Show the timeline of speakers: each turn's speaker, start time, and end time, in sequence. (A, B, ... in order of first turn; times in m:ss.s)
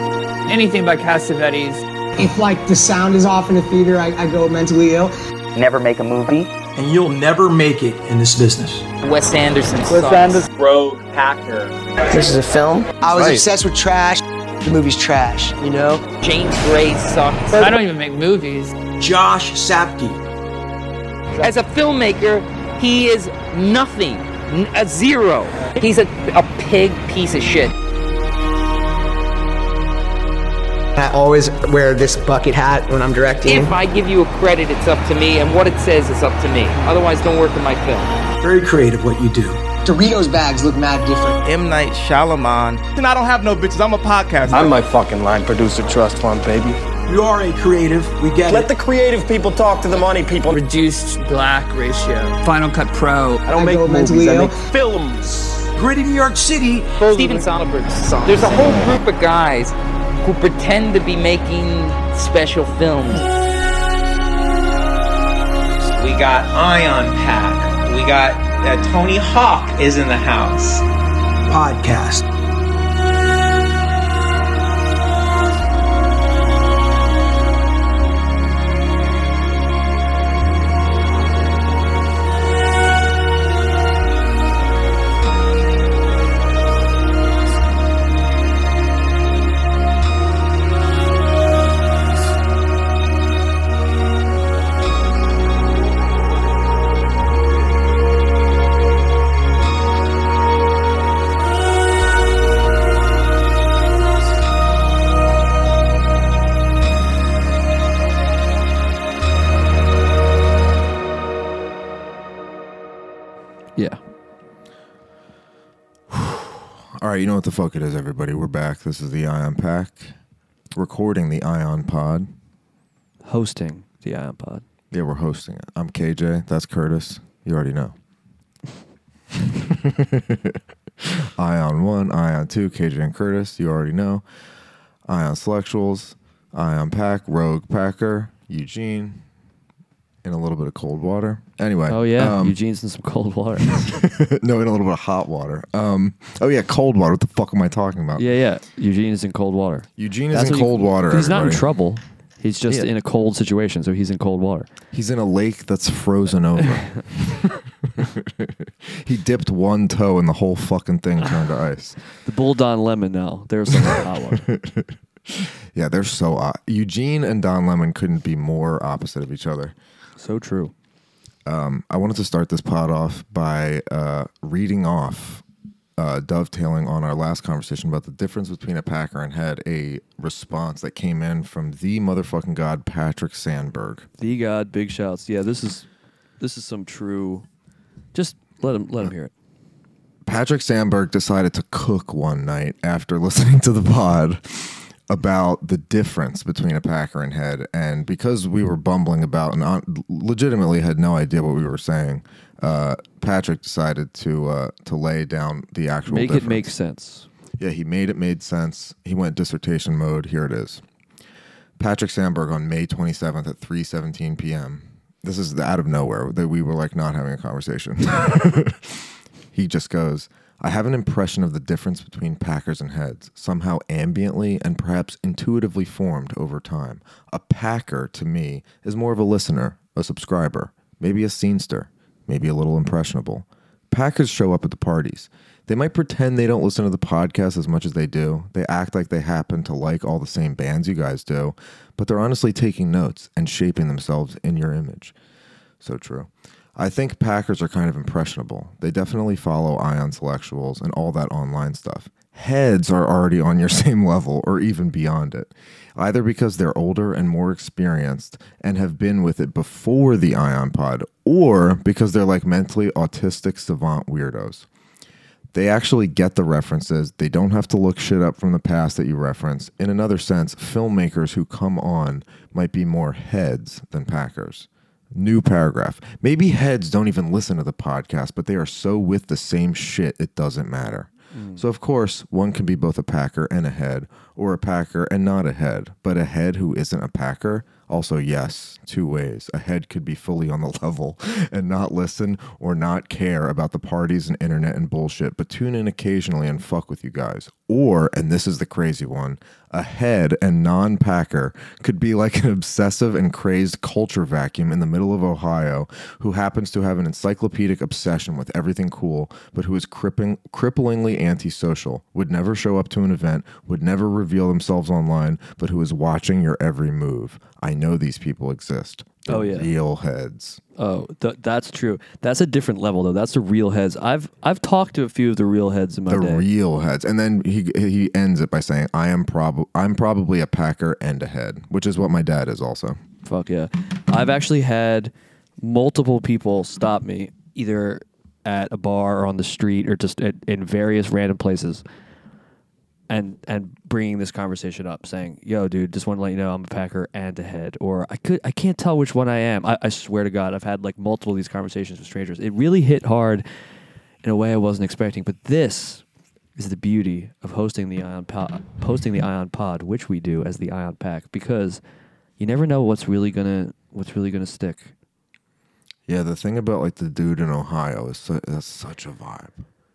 0:00.5-0:01.8 A
0:02.2-0:05.1 B
0:05.5-0:06.5 C
0:06.8-0:08.8 D
0:09.0-0:10.4 C
0:10.4-0:11.7 E
0:12.1-0:12.4 D
0:13.0-0:14.2 B
0:13.1-0:13.4 F
0:13.1-0:13.4 D
0:14.7-0:16.0 D
0:14.7-0:15.4 B
0:16.2-0:17.7 C
0:17.5-0:18.7 A
0:19.0-0:20.2 D
0:21.4-0:27.7 C
0:31.0-0:33.8 B
0:33.4-0:38.2 C
0:38.4-0:39.6 D
0:39.8-0:41.4 B
0:41.4-0:44.8 E
0:44.5-0:46.8 F
0:47.0-0:48.7 D
0:48.5-0:50.6 F
0:50.5-0:53.4 A
0:53.5-0:54.6 B
0:53.5-0:55.4 E
0:55.7-0:57.0 D
0:57.1-1:03.3 C
1:05.9-1:10.8 G
1:11.5-1:12.2 D
1:56.1-2:00.2 H
2:00.7-2:02.3 H
2:03.2-2:04.6 I
2:04.9-2:07.9 H
2:09.3-2:14.2 H
2:15.0-2:19.2 H
2:20.2-2:22.6 H
2:21.9-2:23.9 I
2:23.7-2:28.3 H
2:28.2-2:34.7 I
2:30.0-2:31.6 H
2:34.9-2:42.0 H
2:42.1-2:44.5 I
2:43.7-2:49.8 H
2:50.2-2:50.7 I
2:51.4-2:55.4 H
2:56.0-3:04.1 H
3:04.2-3:05.9 I
3:06.4-3:07.4 I
3:08.1-3:09.3 I
3:10.2-3:26.7 H
3:26.1-3:27.3 I
3:27.6-3:30.8 H
3:31.8-4:05.1 H
4:05.8-4:24.6 H
4:25.5-5:20.6 H
4:41.3-4:41.6 I
5:19.3-5:19.7 I
5:20.8-5:26.4 I
5:26.1-5:33.0 H
5:33.2-5:41.8 I
5:43.1-5:53.4 I
5:54.2-5:56.0 I
5:56.6-6:01.8 I
6:02.4-6:04.9 I
6:06.1-6:09.6 H